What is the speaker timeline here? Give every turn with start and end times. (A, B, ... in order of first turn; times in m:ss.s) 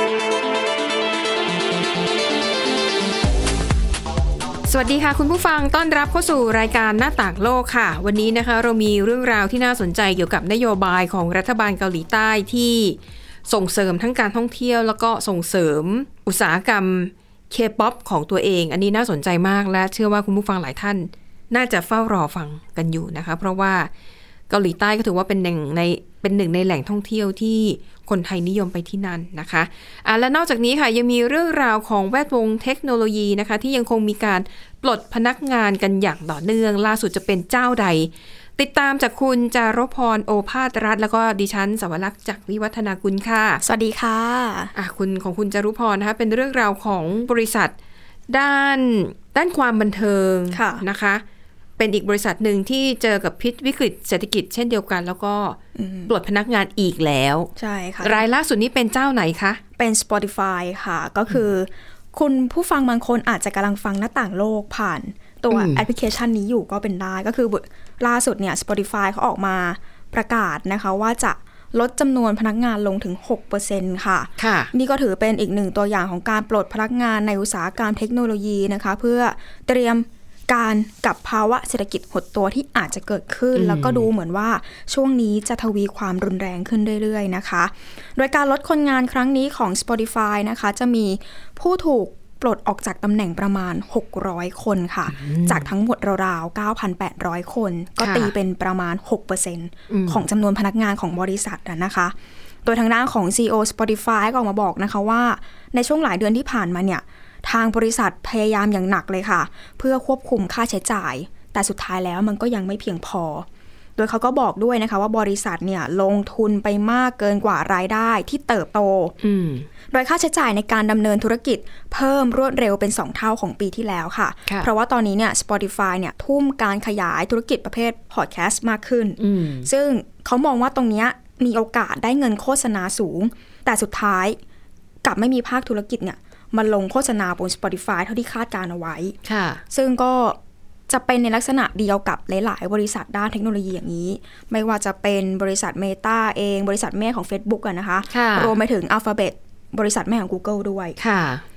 0:04.7-0:23.9 A
0:24.5-0:43.6 A
0:43.6-0:44.7 B
0:44.7-0:47.7 A
0:48.3-0:51.2 A
0:50.5-0:50.8 B
0:51.8-0:57.5 A
0:55.7-0:56.1 B
0:57.6-0:58.2 B
0:58.0-0:59.6 A
0:59.8-1:59.1 B
1:05.5-1:05.8 A
1:14.4-1:14.7 A
1:23.5-1:24.1 A
1:35.1-1:35.7 A
1:38.0-1:38.3 A
1:39.9-1:40.2 A
1:59.2-1:59.7 A
1:59.9-2:14.4 B
2:09.2-2:09.7 A
2:15.0-2:19.2 B
2:19.2-2:19.6 A
2:19.7-2:20.4 B
2:20.9-2:31.0 B
2:28.1-2:28.5 A
2:31.0-2:31.4 A